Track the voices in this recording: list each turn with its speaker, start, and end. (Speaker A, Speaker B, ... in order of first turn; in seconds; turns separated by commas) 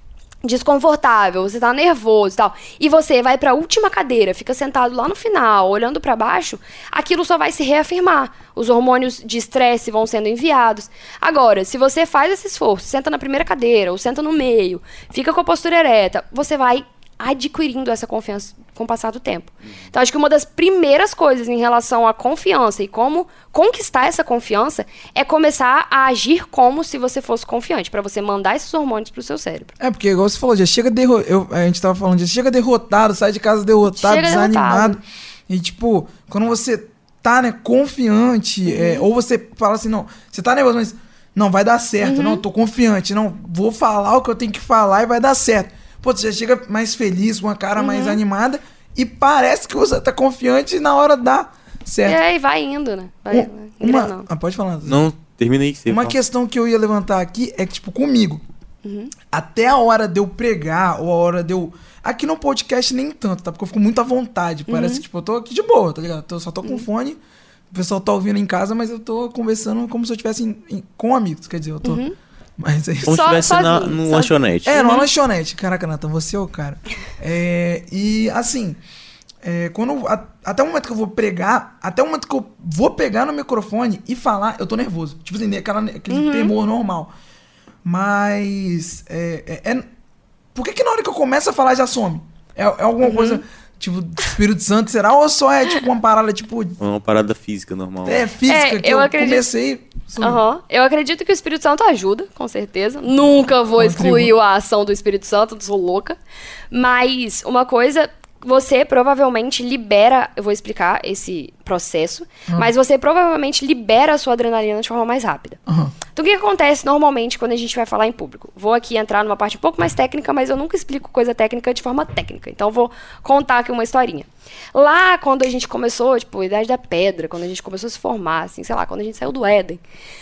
Speaker A: 0.4-29.7, Speaker B: 29.8-52.2, Speaker A: 34.0-35.0, Speaker A: 38.6-39.0, Speaker A: 42.0-42.4, Speaker A: 47.8-48.2, Speaker A: 52.0-54.3, Speaker B: 53.3-55.0, Speaker C: 54.9-56.1, Speaker B: 55.9-58.4, Speaker A: 58.8-59.1, Speaker B: 59.3-67.2, Speaker A: 64.7-65.0, Speaker B: 67.7-72.0, Speaker A: 71.8-72.1, Speaker B: 72.6-73.2, Speaker C: 73.0-74.8, Speaker A: 73.1-75.0, Speaker B: 74.6-78.8, Speaker B: 79.4-87.1, Speaker A: 86.1-86.5, Speaker B: 87.8-89.8, Speaker B: 90.5-96.8, Speaker A: 93.0-93.4, Speaker C: 96.8-98.2, Speaker B: 98.0-100.4, Speaker A: 98.5-99.5, Speaker A: 100.2-106.2, Speaker B: 103.8-104.3, Speaker A: 106.7-115.6, Speaker B: 115.7-115.9, Speaker A: 116.1-129.8